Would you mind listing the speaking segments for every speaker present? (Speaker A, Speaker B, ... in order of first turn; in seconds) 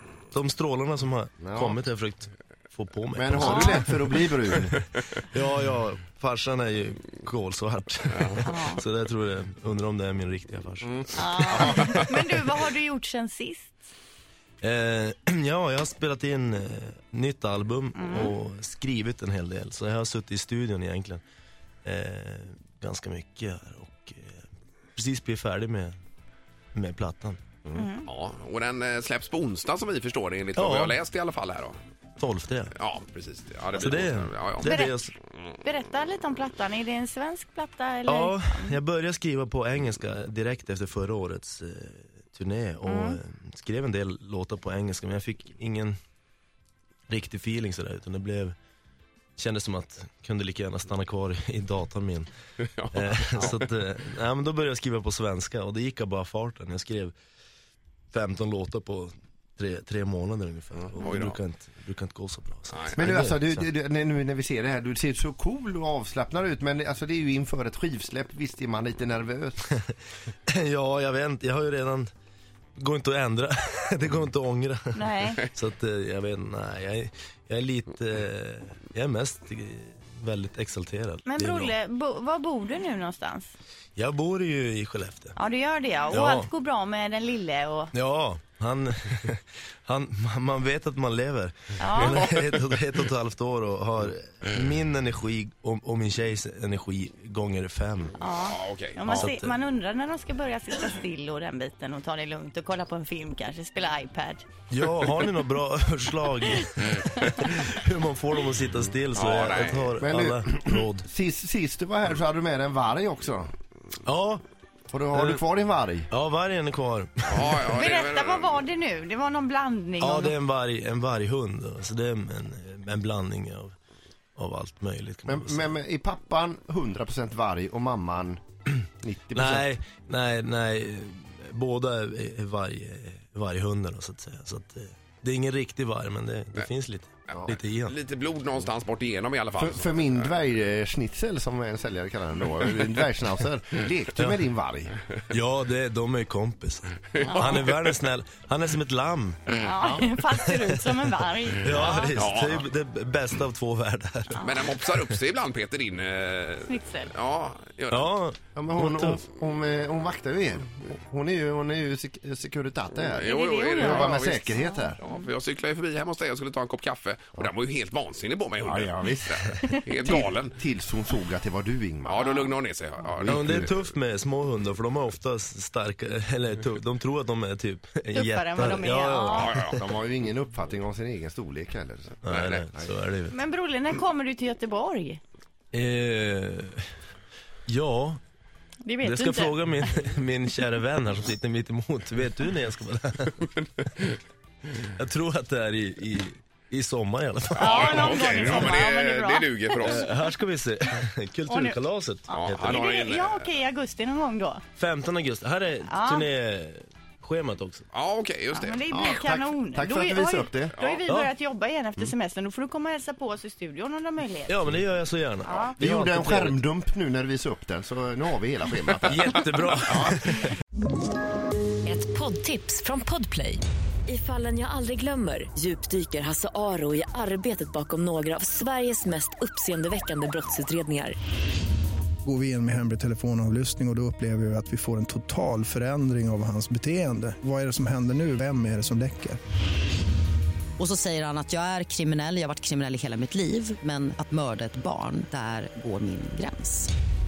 Speaker A: 0.3-4.3, 5.3-12.1, 14.6-21.2, 21.9-24.4, 25.0-25.9, 26.8-27.4, 30.6-31.0, 32.2-32.7, 33.7-35.1, 38.1-46.0, 47.1-48.5, 49.4-52.3, 52.9-57.1, 58.1-63.7, 69.7-72.1, 72.8-81.8, 84.0-85.4, 86.1-86.5, 87.9-98.3, 99.1-99.6, 104.7-111.1, 114.0-114.4, 115.1-115.4, 116.1-117.7, 120.0-123.7, 124.4-125.7, 129.3-138.0, 144.2-144.4, 145.3-149.4, 150.0-150.5, 151.5-155.2, 157.9-159.2, 173.2-179.8, 182.2-183.4, 185.7-186.9, 187.7-188.2, 189.0-193.5, 194.8-198.8, 199.8-202.9, 204.8-207.8, 214.5-216.6, 219.1-220.5
Speaker B: 1.4-1.8, 3.2-4.8, 10.8-11.8, 63.0-69.7, 110.0-113.5, 114.9-116.1, 125.3-128.4, 129.0-129.7, 139.6-145.0, 158.6-165.0, 168.6-169.4, 170.0-172.3, 173.2-173.7, 179.7-182.2, 208.9-210.8, 215.8-220.2
Speaker C: 3.4-3.9, 8.4-8.8, 11.2-13.8, 17.9-18.3, 27.8-28.1, 34.6-35.0, 35.6-38.8, 42.9-43.2, 74.9-75.5, 81.2-83.5, 85.4-87.9, 91.8-92.2, 98.2-104.5, 117.7-120.3, 147.2-147.7, 149.5-152.2, 154.3-154.6, 156.7-157.1, 163.2-165.2, 178.1-179.5, 183.3-185.2, 188.8-189.8, 197.6-200.2, 201.5-201.8, 202.3-204.6, 205.9-206.3, 208.6-214.6, 215.4-215.8
Speaker D: 28.1-31.8, 32.8-34.8, 52.6-53.6, 61.0-61.4, 62.7-63.0, 98.5-99.3, 109.1-109.9, 117.3-118.6, 137.3-140.3, 147.1-147.9, 151.7-152.7, 154.4-158.1, 163.1-170.6, 172.1-173.8, 179.3-179.8, 182.3-182.7, 197.6-200.1, 202.3-203.5, 207.9-208.8, 210.8-211.0
Speaker E: 221.9-231.2
Speaker F: 232.3-239.4
Speaker G: 240.8-246.9